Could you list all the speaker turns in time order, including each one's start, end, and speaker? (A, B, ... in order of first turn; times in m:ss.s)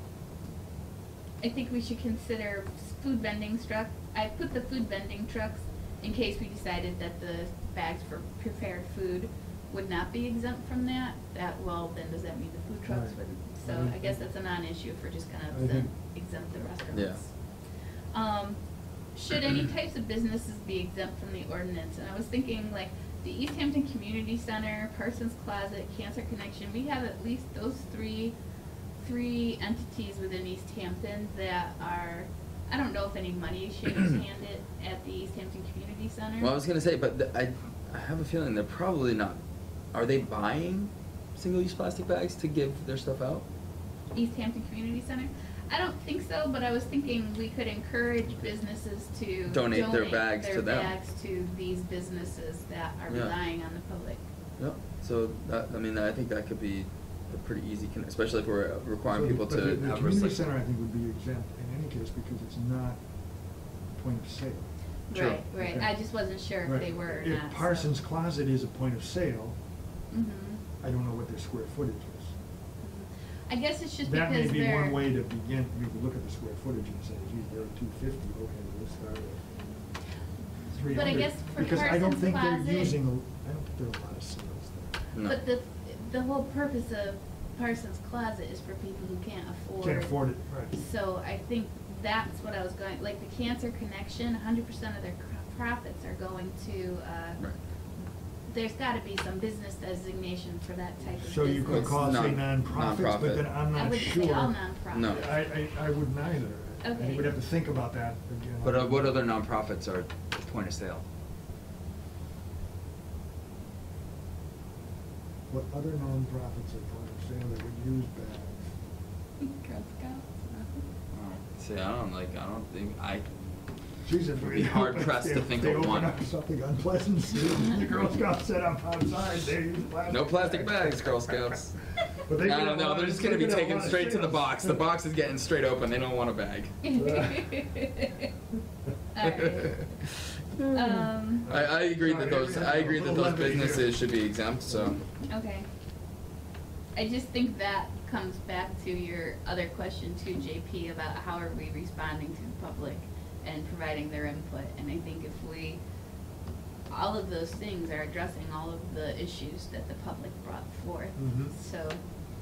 0:01.4-0:17.3 A
0:12.9-0:14.2 B
0:15.5-0:15.9 B
0:16.9-0:17.2 C
0:18.1-0:18.6 A
0:19.1-0:28.3 A
0:29.0-0:36.5 A
0:36.4-0:39.4 C
0:39.9-0:43.4 C
0:44.1-0:54.2 A
0:49.5-0:50.9 C
0:53.1-0:53.3 C
0:54.6-1:00.4 C
0:59.1-1:03.0 B
1:03.9-1:04.7 B
1:05.1-1:07.9 A
1:05.1-1:05.4 C
1:05.6-1:05.9 B
1:06.6-1:09.6 B
1:10.1-1:10.6 A
1:10.8-1:12.3 B
1:12.8-1:15.0 A
1:14.0-1:19.4 B
1:20.7-1:25.0 B
1:20.9-1:23.0 A
1:25.2-1:30.2 A
1:29.8-1:30.7 B
1:30.7-1:37.4 A
1:38.5-1:42.2 A
1:41.2-1:49.2 B
1:41.6-1:43.5 C
1:43.7-1:45.3 A
1:44.9-1:45.2 C
1:46.8-1:47.4 A
1:48.6-1:51.0 C
1:55.5-1:58.7 B
1:59.4-2:00.8 A
2:01.1-2:03.2 C
2:04.0-2:11.6 B
2:04.4-2:06.1 C
2:10.1-2:11.8 C
2:12.1-2:14.9 B
2:12.4-2:16.9 C
2:16.8-2:18.3 A
2:16.9-2:17.6 B
2:19.1-2:19.9 A
2:19.2-2:25.0 C
2:20.7-2:21.5 A
2:21.4-2:24.0 B
2:24.7-2:25.0 B
2:25.3-2:25.6 A
2:27.0-2:35.8 A
2:36.9-2:42.0 A
2:41.2-2:41.5 B